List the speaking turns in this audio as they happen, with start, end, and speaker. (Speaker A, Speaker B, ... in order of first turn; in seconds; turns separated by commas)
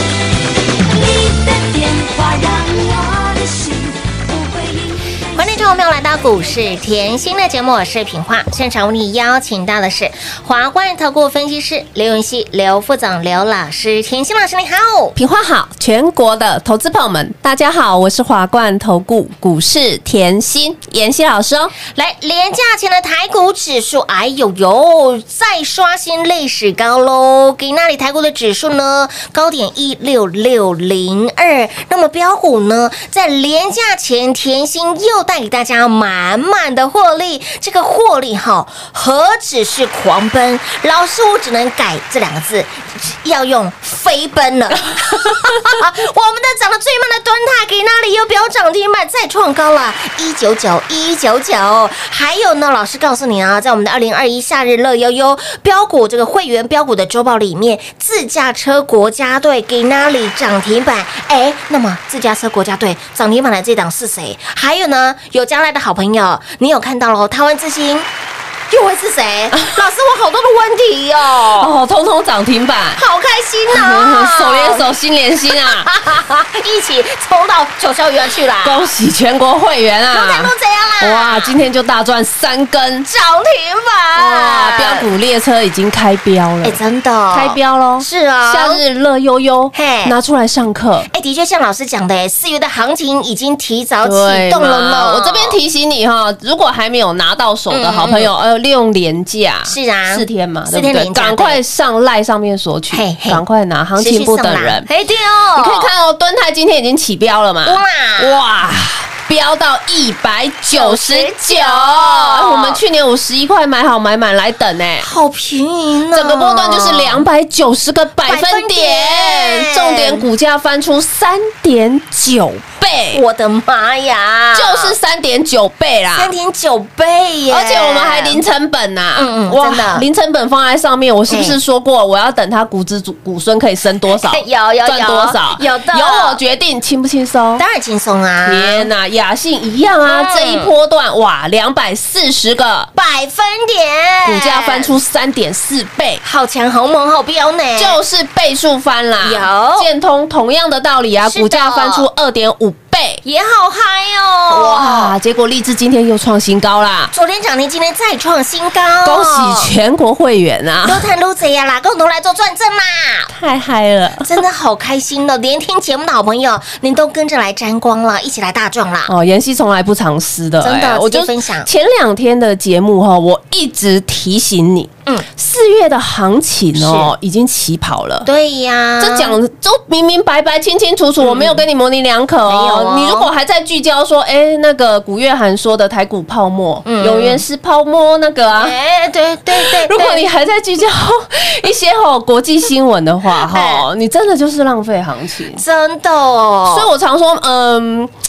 Speaker A: 0.8-5.7, Speaker B: 5.3-15.2, Speaker C: 15.2-21.7, Speaker B: 21.9-68.1, Speaker B: 68.7-71.7, Speaker C: 71.5-73.0, Speaker B: 73.0-74.9, Speaker C: 73.7-75.9, Speaker B: 75.5-78.9, Speaker C: 78.6-83.1, Speaker B: 80.1-81.5, Speaker B: 83.1-85.1, Speaker C: 84.2-86.8, Speaker B: 86.6-88.8, Speaker C: 87.3-91.1, Speaker B: 89.7-90.2, Speaker B: 91.1-95.6, Speaker C: 94.0-104.9, Speaker B: 97.7-98.3, Speaker B: 99.6-101.6, Speaker B: 102.9-103.4, Speaker B: 104.0-105.9, Speaker C: 105.5-115.1, Speaker B: 107.6-108.4, Speaker B: 110.7-112.8, Speaker B: 115.0-117.2, Speaker C: 116.1-123.2, Speaker B: 118.2-120.2, Speaker B: 123.1-125.0, Speaker C: 124.5-126.3, Speaker B: 126.2-128.4, Speaker C: 127.5-137.6, Speaker B: 129.1-130.1, Speaker B: 131.3-131.6, Speaker B: 134.1-136.4, Speaker B: 137.6-138.9, Speaker C: 138.4-142.9, Speaker B: 140.0-140.7, Speaker B: 142.9-144.9, Speaker C: 144.2-146.2, Speaker B: 146.2-148.0, Speaker C: 147.8-153.2, Speaker B: 149.2-149.9, Speaker B: 151.2-152.1, Speaker B: 153.2-155.2, Speaker C: 154.5-157.1, Speaker B: 157.1-159.7, Speaker C: 159.0-161.1, Speaker B: 160.8-163.3, Speaker C: 163.3-164.3, Speaker B: 164.2-169.1, Speaker C: 169.1-178.3, Speaker B: 170.6-171.7, Speaker B: 176.7-177.1, Speaker B: 178.2-179.4, Speaker C: 179.0-188.7, Speaker B: 181.2-181.6, Speaker B: 182.5-183.3, Speaker B: 186.8-187.4, Speaker B: 188.5-190.3, Speaker C: 189.5-195.6, Speaker B: 193.4-193.8, Speaker B: 195.5-196.9, Speaker C: 196.7-198.1